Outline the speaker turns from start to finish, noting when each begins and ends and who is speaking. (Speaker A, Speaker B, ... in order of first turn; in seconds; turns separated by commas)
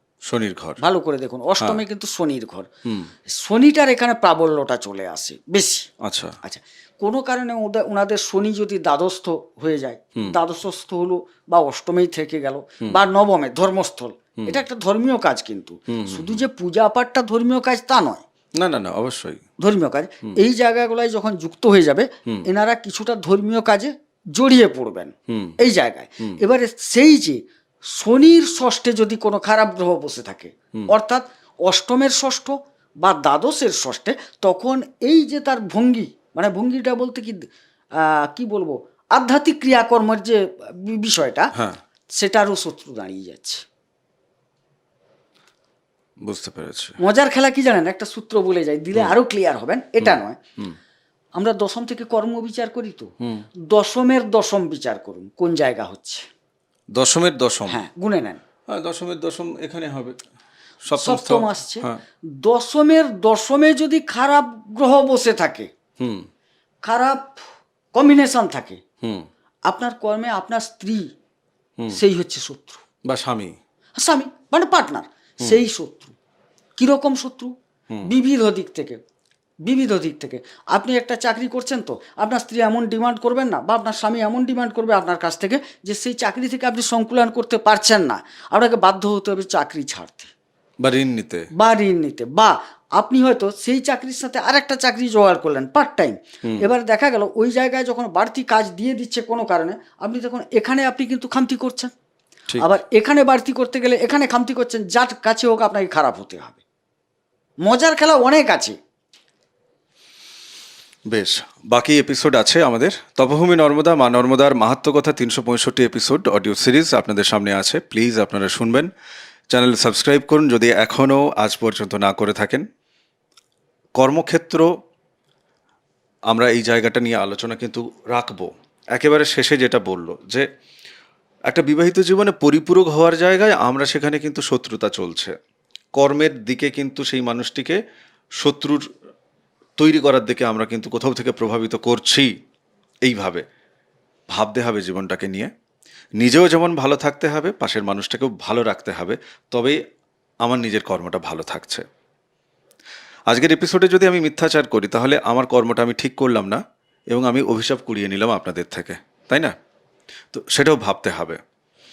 Speaker A: 0.3-0.8, Speaker B: 0.8-2.7, Speaker B: 3.2-5.9, Speaker A: 6.0-6.4, Speaker B: 6.4-18.2, Speaker A: 15.9-16.4, Speaker A: 18.6-19.4, Speaker B: 19.6-41.5, Speaker A: 25.3-25.6, Speaker A: 41.5-41.8, Speaker B: 42.1-43.6, Speaker A: 46.2-47.0, Speaker B: 47.0-50.4, Speaker A: 50.0-50.8, Speaker B: 51.4-53.1, Speaker B: 53.6-56.3, Speaker A: 56.9-57.8, Speaker B: 57.7-58.4, Speaker A: 58.7-60.1, Speaker A: 60.9-62.0, Speaker B: 61.0-65.7, Speaker A: 66.0-66.3, Speaker B: 66.8-68.8, Speaker B: 69.7-71.1, Speaker B: 71.9-72.8, Speaker A: 73.0-73.5, Speaker B: 74.0-76.1, Speaker B: 76.8-77.5, Speaker B: 78.1-79.0, Speaker B: 79.6-90.3, Speaker A: 90.8-91.5, Speaker B: 91.5-101.9, Speaker B: 102.6-106.6, Speaker B: 107.6-108.8, Speaker A: 111.1-118.9, Speaker A: 119.5-122.7, Speaker A: 124.0-124.7, Speaker A: 126.3-130.5, Speaker A: 131.5-135.3, Speaker A: 136.0-137.8, Speaker A: 138.4-138.9, Speaker A: 139.8-142.3, Speaker A: 143.0-143.4, Speaker A: 144.3-145.5, Speaker A: 146.2-149.8, Speaker A: 150.4-151.8, Speaker A: 153.3-159.5, Speaker A: 160.3-161.4